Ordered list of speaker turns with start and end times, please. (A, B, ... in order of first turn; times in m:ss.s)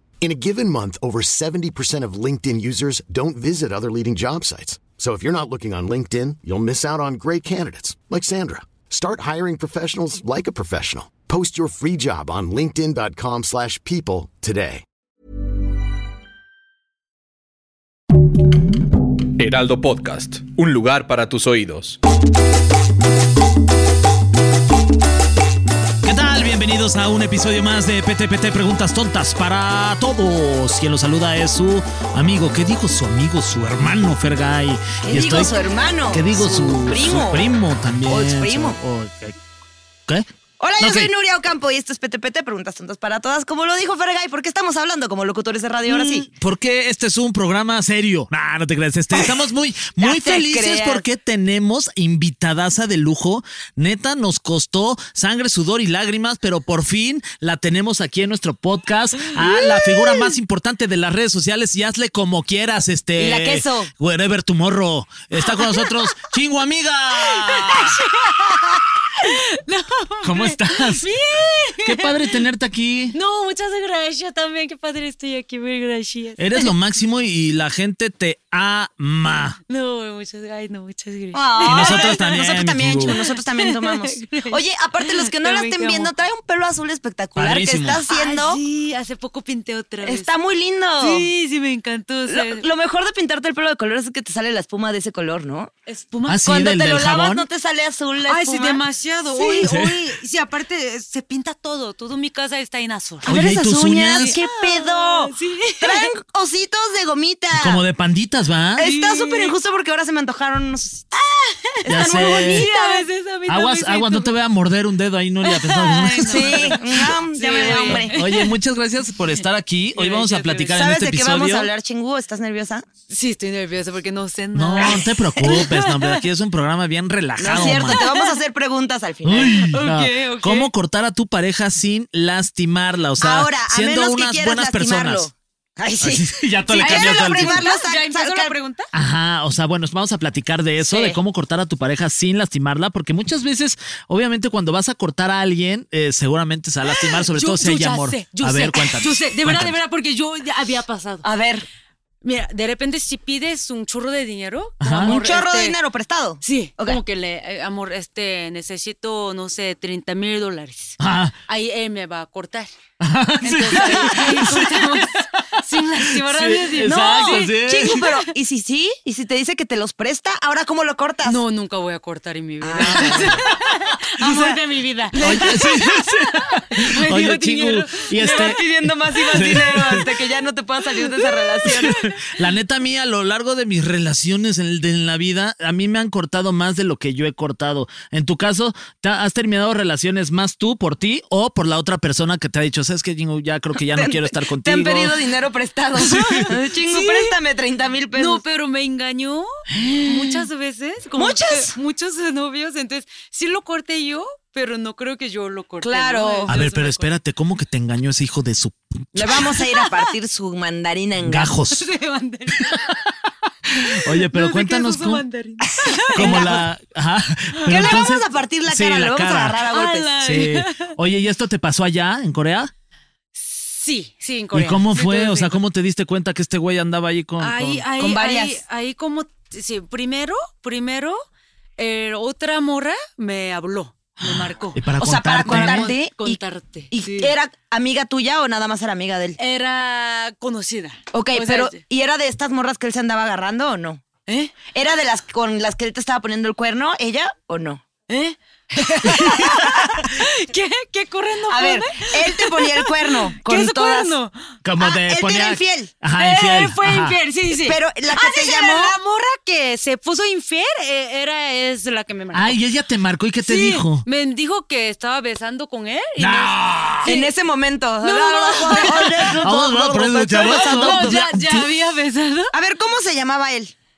0:00.2-0:14.8 A
0:19.4-0:22.0 B
0:26.0-0:35.5 C
0:35.1-0:37.4 D
0:36.1-0:39.4 C
0:38.1-0:38.8 D
0:40.6-0:46.3 D
0:40.8-0:41.1 C
0:45.9-1:08.0 C
0:50.0-0:51.0 D
0:59.3-1:00.3 E
1:03.2-1:03.9 D
1:05.4-1:06.0 E
1:07.2-1:12.4 E
1:10.2-1:11.1 C
1:11.8-1:13.2 C
1:13.1-1:16.7 E
1:16.4-1:19.6 C
1:19.7-1:22.2 E
1:21.3-1:28.6 D
1:21.6-1:23.2 C
1:23.0-1:26.1 E
1:27.4-1:28.0 C
1:28.1-1:30.3 E
1:30.0-1:31.3 D
1:31.0-1:32.7 E
1:32.3-1:35.7 D
1:35.9-1:36.4 E
1:36.3-1:37.5 C
1:36.5-1:38.8 D
1:38.2-1:43.4 E
1:39.3-1:39.7 D
1:39.6-1:39.9 C
1:43.3-1:44.4 C
1:43.3-1:47.8 D
1:44.2-1:46.1 E
1:47.5-1:48.8 C
1:48.8-1:51.3 D
1:48.8-1:49.5 E
1:51.6-1:54.4 E
1:51.9-1:52.7 C
1:52.0-1:53.0 D
1:53.5-1:56.8 C
1:55.5-1:58.6 E
1:56.2-1:58.2 D
1:57.9-2:01.7 C
2:00.0-2:00.8 E
2:00.8-2:02.8 D
2:03.1-2:06.3 E
2:04.5-2:08.0 C
2:07.4-2:09.6 D
2:07.6-2:08.4 E
2:09.2-2:15.3 C
2:09.7-2:10.7 E
2:13.2-2:18.6 D
2:16.0-2:17.7 C
2:16.8-2:18.9 E
2:18.9-2:29.8 C
2:20.8-2:21.2 D
2:26.9-2:31.3 E
2:31.2-2:31.7 D
2:32.2-2:35.8 E
2:34.8-2:35.2 C
2:35.0-2:37.0 D
2:36.4-2:42.7 E
2:41.0-2:41.4 C
2:43.0-2:44.8 C
2:43.4-2:47.9 E
2:43.4-2:44.6 D
2:46.1-2:48.1 C
2:46.8-2:51.4 D
2:51.2-2:58.6 E
2:52.6-2:53.5 D
2:52.8-2:53.4 C
2:54.2-2:54.6 D
2:55.2-2:55.6 D
2:55.2-3:00.1 C
2:58.2-3:02.0 D
2:59.3-2:59.6 E
3:01.2-3:02.2 E
3:01.6-3:15.1 C
3:13.9-3:18.4 D
3:16.1-3:16.4 C
3:16.3-3:17.4 E
3:18.2-3:19.5 E
3:19.8-3:20.3 D
3:20.0-3:27.1 E
3:21.2-3:21.8 D
3:25.8-3:26.5 D
3:26.5-3:29.5 C
3:29.2-3:31.5 D
3:31.2-3:31.8 C
3:31.7-3:33.0 E
3:33.7-3:36.6 E
3:33.8-3:35.2 C
3:35.7-3:36.6 D
3:36.2-3:39.6 C
3:37.6-3:38.0 E
3:37.7-3:40.1 D
3:39.7-3:41.0 E
3:40.2-3:42.7 C
3:43.3-3:45.6 E
3:44.5-3:47.9 C
3:47.4-3:51.2 E
3:48.0-3:48.6 D
3:51.8-3:54.9 E
3:54.8-3:55.9 C
3:55.0-3:56.4 D
3:55.4-3:57.3 E
3:56.9-3:59.4 D
3:59.4-4:01.8 E
4:01.1-4:04.0 D
4:04.3-4:04.6 E
4:04.7-4:07.8 D
4:08.1-4:14.4 E
4:08.8-4:09.9 D
4:11.5-4:14.2 D
4:14.6-4:17.2 C
4:14.8-4:15.9 D
4:16.1-4:22.6 E
4:17.5-4:19.0 D
4:22.3-4:24.0 C
4:23.4-4:27.3 E
4:26.2-4:27.2 C
4:27.0-4:31.2 D
4:28.0-4:29.6 E
4:29.2-4:31.7 C
4:30.3-4:32.6 E
4:32.5-4:33.7 D